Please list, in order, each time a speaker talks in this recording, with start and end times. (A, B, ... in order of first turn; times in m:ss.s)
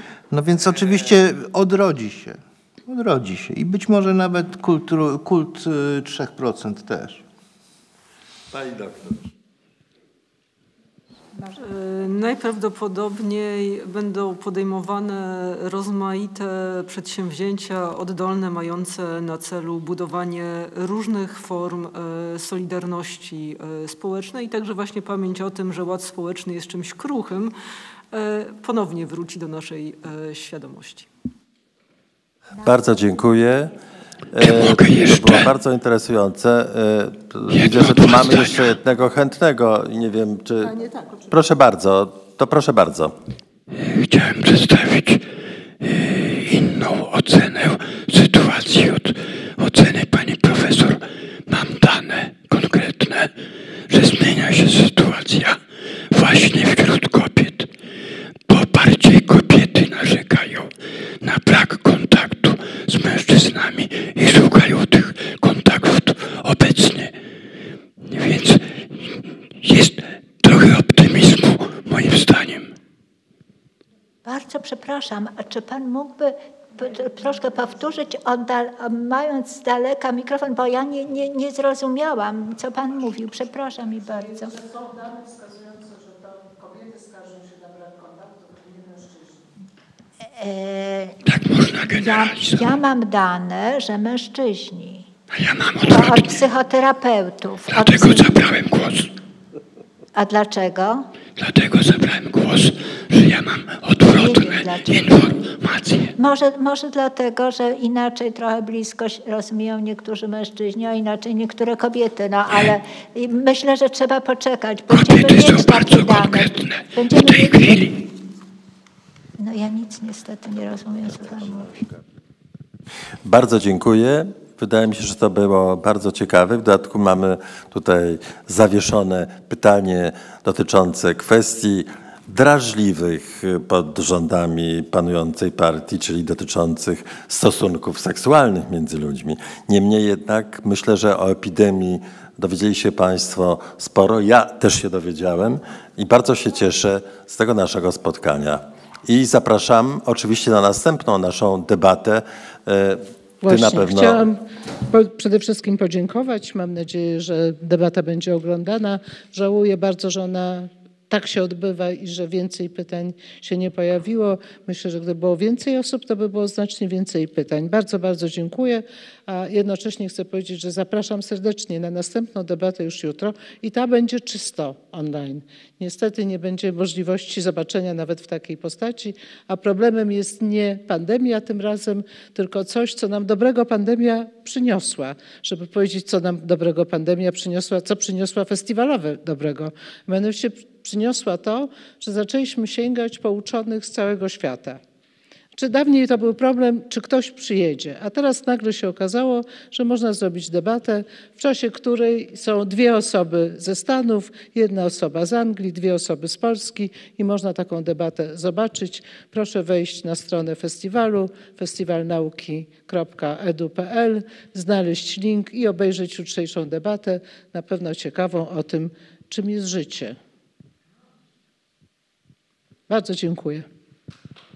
0:00.3-0:07.2 A
0:08.5-0:09.3 B
0:11.6-0:27.5 C
0:28.1-0:31.1 C
0:32.6-0:33.8 B
0:34.3-0:43.2 B
0:34.4-0:35.5 D
0:37.5-0:38.7 D
0:43.7-0:53.3 D
0:53.9-0:57.7 D
0:58.5-1:07.2 D
1:08.0-1:12.8 D
1:14.2-1:24.6 E
1:24.4-1:29.4 F
1:30.3-1:31.2 E
1:31.2-1:32.7 D
1:32.0-1:35.1 E
1:35.3-1:36.4 D
1:35.8-1:38.4 E
1:37.7-1:39.1 D
1:40.2-1:41.1 E
1:41.4-1:46.2 D
1:44.1-1:45.3 E
1:46.2-1:58.0 E
1:54.9-1:58.0 D
1:59.4-2:01.8 E
2:03.2-2:34.3 B
2:33.4-3:14.8 F
3:15.5-3:40.2 F
3:42.9-3:43.7 F